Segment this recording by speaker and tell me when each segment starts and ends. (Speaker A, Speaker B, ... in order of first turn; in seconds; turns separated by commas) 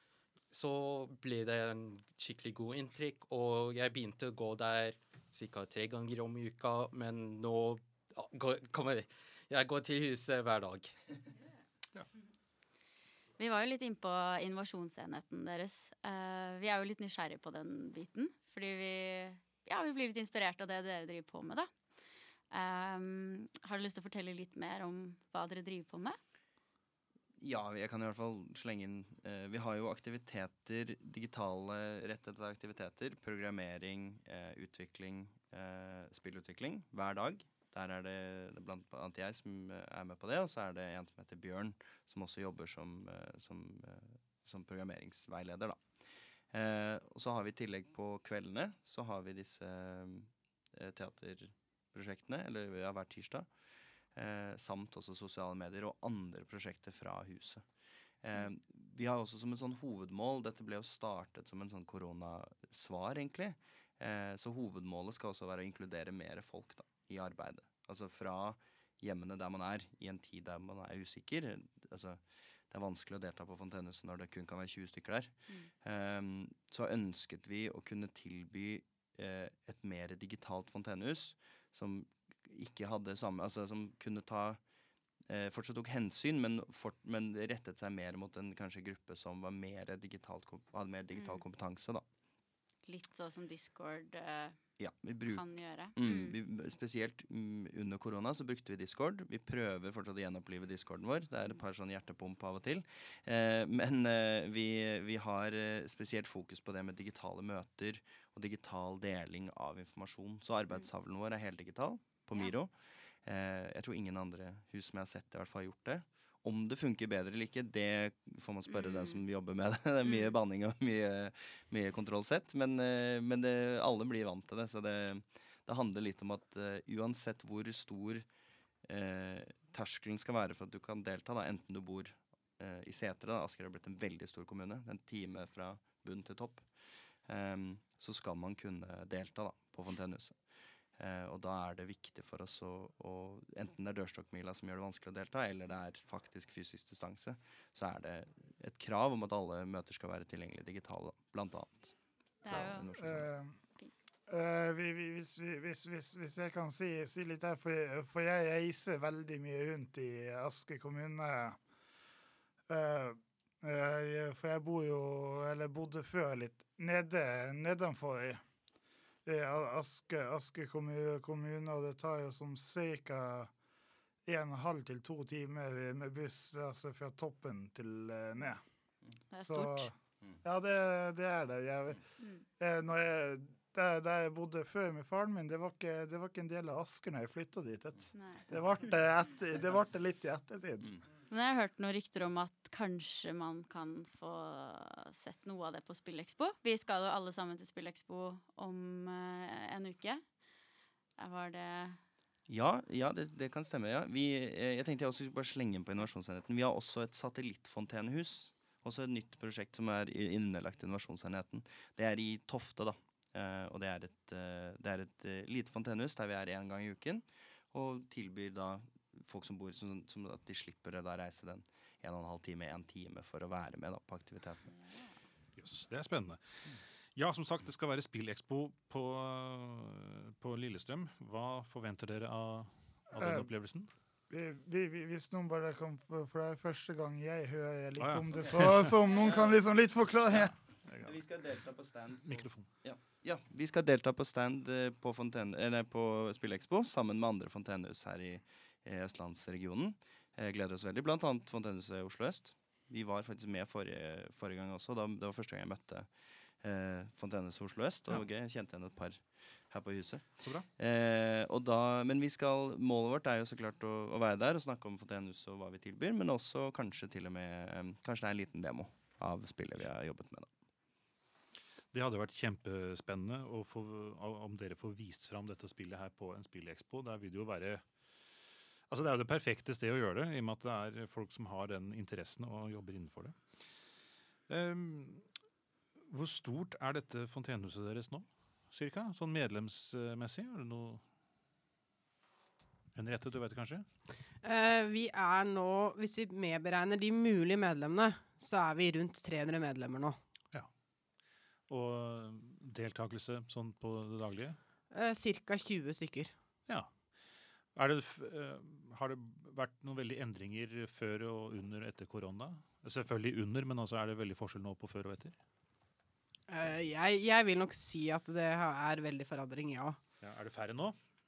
Speaker A: 0.5-10.9, Speaker B: 13.4-21.7, Speaker B: 22.5-26.2, Speaker C: 27.4-45.8, Speaker C: 46.5-53.5, Speaker C: 54.1-57.6, Speaker C: 58.2-84.6, Speaker C: 85.3-92.0, Speaker B: 91.1-91.4, Speaker B: 92.8-94.6, Speaker C: 94.8-95.4, Speaker B: 95.2-96.4, Speaker C: 96.0-128.2, Speaker B: 118.7-119.2, Speaker B: 120.0-120.4, Speaker C: 128.9-136.7, Speaker C: 137.3-140.3, Speaker C: 141.0-153.3, Speaker B: 152.4-152.9, Speaker D: 153.0-153.6, Speaker D: 154.3-161.6, Speaker D: 162.7-168.4, Speaker D: 169.2-173.5, Speaker D: 174.2-178.6, Speaker B: 179.3-179.9, Speaker D: 179.4-179.9, Speaker D: 180.4-182.0, Speaker B: 182.2-182.4, Speaker D: 182.6-191.0, Speaker B: 188.1-188.5, Speaker B: 191.3-200.2, Speaker B: 201.2-202.0, Speaker C: 202.5-224.7, Speaker E: 225.6-226.6, Speaker E: 227.2-233.9, Speaker D: 233.2-233.5, Speaker D: 234.3-240.5, Speaker E: 238.0-239.0, Speaker C: 239.1-239.6, Speaker E: 240.8-241.2, Speaker C: 241.0-256.1, Speaker E: 242.2-242.7, Speaker C: 256.6-260.2, Speaker E: 260.4-260.7, Speaker C: 260.8-270.5, Speaker E: 271.9-277.8, Speaker E: 278.9-283.3, Speaker E: 284.5-285.2, Speaker E: 286.1-291.0, Speaker E: 292.9-293.9, Speaker F: 294.4-300.2, Speaker E: 301.7-304.6, Speaker F: 304.9-306.3, Speaker E: 307.7-315.4, Speaker F: 316.5-320.0, Speaker E: 320.2-320.9